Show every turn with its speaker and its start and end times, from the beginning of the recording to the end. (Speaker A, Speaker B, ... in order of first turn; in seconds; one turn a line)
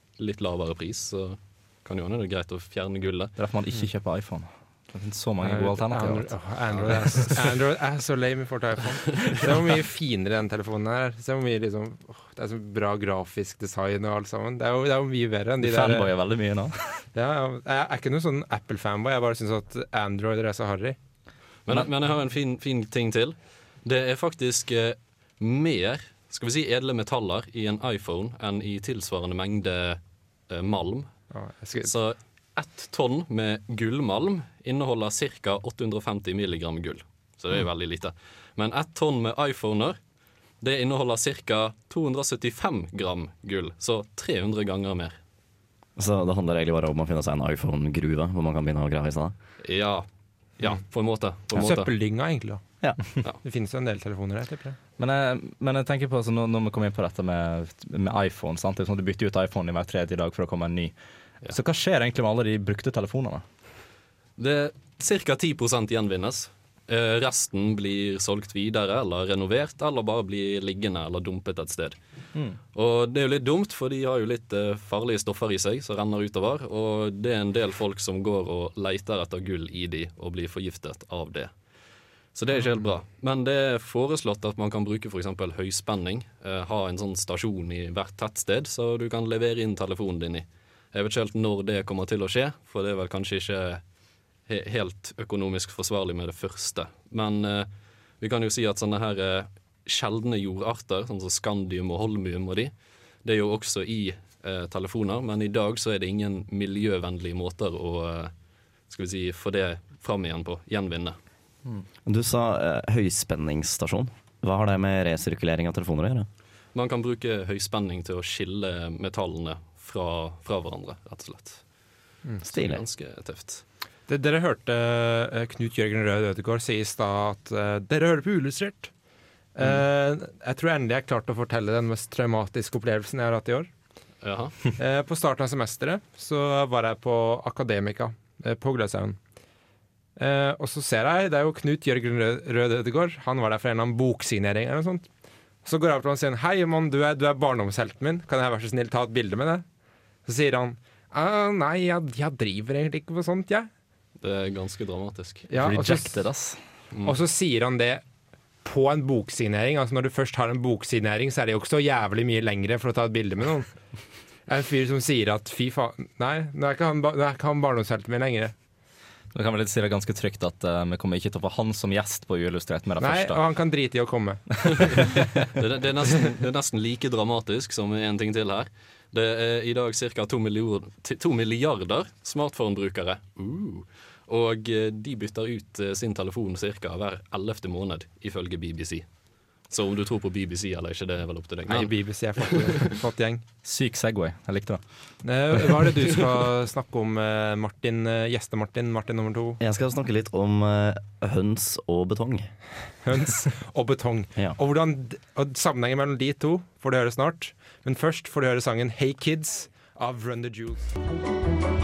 Speaker A: 0.2-3.3
Speaker B: 3.4-7.4
Speaker C: 5.4-16.1
Speaker B: 15.6-17.1
Speaker C: 17.1-21.0
Speaker A: 21.7-31.2
Speaker C: 31.3-31.9
Speaker A: 31.8-40.0
Speaker A: 40.6-45.2
Speaker D: 46.0-49.3
Speaker A: 49.6-50.1
Speaker A: 50.6-51.9
Speaker C: 51.5-54.8
Speaker B: 55.0-63.4
Speaker A: 64.4-72.0
Speaker A: 72.7-81.5
Speaker A: 82.3-93.8
Speaker A: 94.5-108.3
Speaker A: 108.9-111.2
Speaker D: 112.0-116.3
Speaker A: 116.7-121.7
Speaker D: 122.4-122.8
Speaker A: 122.5-123.6
Speaker C: 124.1-128.9
Speaker C: 129.6-133.7
Speaker A: 134.2-134.7
Speaker C: 134.8-139.2
Speaker C: 140.2-145.1
Speaker C: 145.6-149.7
Speaker C: 150.3-153.7
Speaker A: 154.2-155.5
Speaker C: 155.5-156.3
Speaker B: 155.6-156.6
Speaker C: 157.0-158.0
Speaker C: 158.6-163.7
Speaker C: 164.5-168.5
Speaker B: 169.3-173.4
Speaker C: 173.0-174.9
Speaker A: 175.6-192.6
Speaker C: 191.7-193.4
Speaker B: 193.6-195.8
Speaker C: 195.2-199.6
Speaker D: 199.6-202.7
Speaker C: 203.0-210.9